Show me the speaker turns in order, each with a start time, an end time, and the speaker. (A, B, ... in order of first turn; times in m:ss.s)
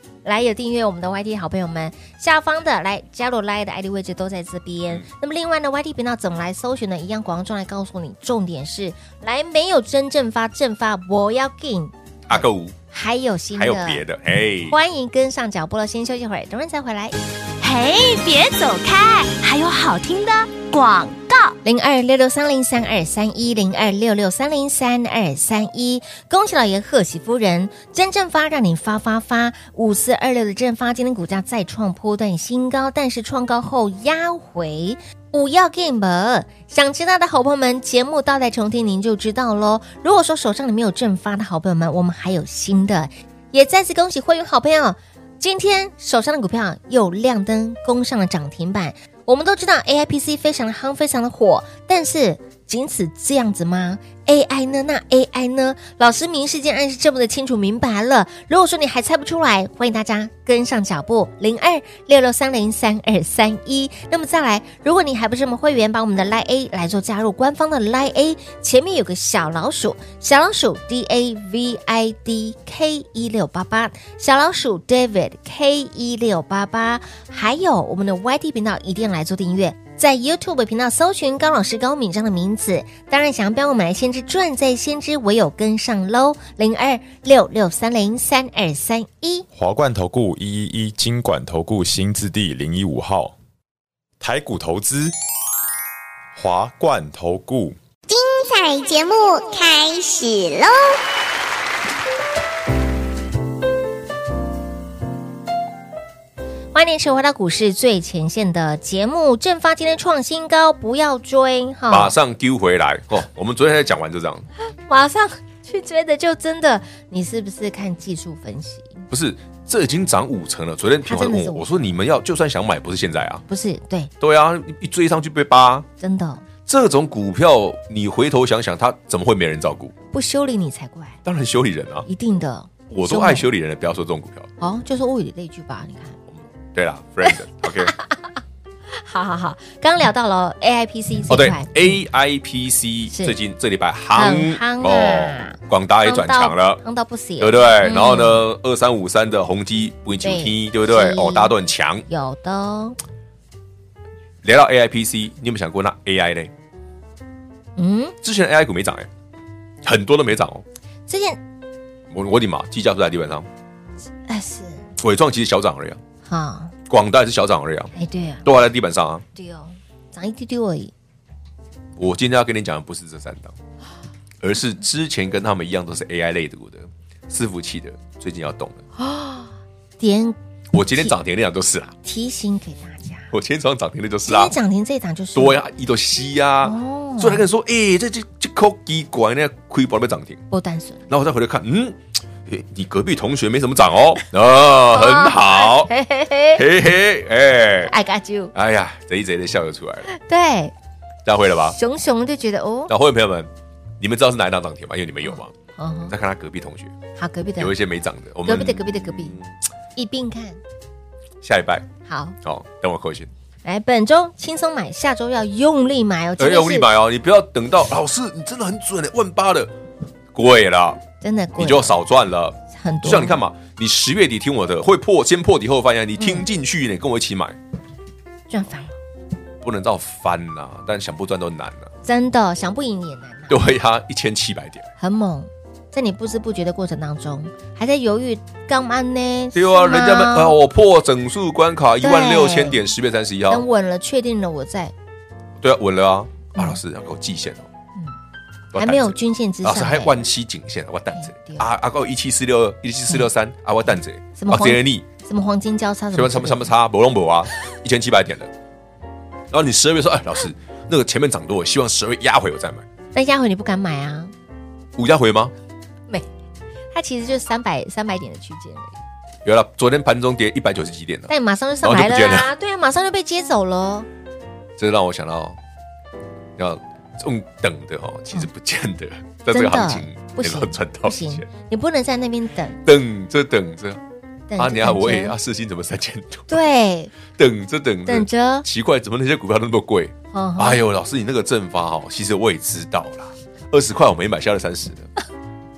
0:00.2-0:14.0 A
0:12.3-0:12.8 B
0:13.5-0:14.8 B
0:14.7-0:17.2 A
0:17.6-0:21.6 C
0:21.6-1:29.5 A
1:29.5-1:33.4 D
1:34.2-1:35.1 D
1:36.4-1:37.8 D
1:38.1-1:41.0 E
1:46.7-1:52.1 A
1:51.9-1:54.5 B
1:54.7-1:59.1 A
1:59.1-2:03.4 B
2:01.0-2:01.9 A
2:03.5-2:04.1 A
2:04.2-2:05.9 B
2:06.0-2:06.4 A
2:06.7-2:09.9 B
2:10.1-2:11.2 A
2:11.2-2:12.1 B
2:12.1-2:13.5 A
2:12.9-2:14.5 B
2:14.6-2:16.2 A
2:16.3-2:17.9 B
2:17.2-2:18.2 A
2:18.9-2:21.8 A
2:21.3-2:26.8 B
2:23.1-2:23.4 A
2:24.2-2:28.4 A
2:27.4-2:32.1 B
2:30.2-2:31.6 A
2:32.1-2:33.0 A
2:34.4-2:36.5 B
2:37.8-2:38.2 A
2:38.2-2:39.1 B
2:39.8-2:40.6 B
2:41.1-2:41.4 A
2:42.1-2:43.5 B
2:44.3-2:44.9 A
2:45.0-2:46.0 B
2:46.2-2:46.7 A
2:46.9-2:47.9 B
2:47.9-2:48.5 A
2:48.4-2:49.2 B
2:49.4-2:50.9 A
2:52.0-2:53.6 B
2:54.4-2:58.8 B
2:59.0-3:00.4 A
3:00.7-3:02.0 B
3:02.0-3:03.3 A
3:03.3-3:04.6 B
3:04.2-3:05.6 A
3:05.4-3:10.4 B
3:06.6-3:07.5 A
3:10.5-3:11.1 A
3:11.1-3:15.9 B
3:14.9-3:16.6 A
3:16.6-3:17.9 B
3:17.8-3:18.5 A
3:18.5-3:20.1 B
3:20.1-3:20.7 A
3:21.2-3:21.8 B
3:21.7-3:22.9 A
3:22.9-3:25.5 B
3:25.2-3:26.2 A
3:26.1-3:26.9 B
3:27.2-3:27.8 A
3:27.6-3:29.6 B
3:28.4-3:29.4 A
3:30.0-3:30.6 A
3:31.4-3:31.9 B
3:32.1-3:32.4 A
3:32.4-3:33.3 B
3:33.6-3:36.9 A
3:36.4-3:39.7 B
3:40.3-3:41.0 B
3:41.2-3:42.0 A
3:41.6-3:47.6 B
3:42.7-3:43.4 A
3:46.2-3:46.5 A
3:48.5-3:49.0 A
3:49.6-3:51.9 B
3:52.0-3:53.6 A
3:53.5-3:54.9 B
3:55.0-4:00.6 A
3:59.5-4:03.7 B
4:02.0-4:02.8 A
4:03.5-4:04.9 A
4:05.6-4:07.7 B
4:08.7-4:15.1 B
4:08.8-4:10.2 A
4:11.1-4:11.7 A
4:14.4-4:16.7 A
4:16.1-4:18.5 B
4:19.5-4:22.9 B
4:23.1-4:24.3 A
4:25.0-4:25.5 B
4:26.9-4:29.0 A
4:29.4-4:31.3 B
4:31.3-4:34.1 A
4:31.8-4:32.5 B
4:34.8-4:35.6 B
4:36.6-4:41.5 B
4:39.5-4:42.8 A
4:42.8-4:44.0 B
4:44.5-4:45.4 A
4:44.6-4:46.6 B
4:46.5-4:47.1 A
4:47.3-4:55.1 B
4:48.1-4:48.7 A
4:50.3-4:50.8 A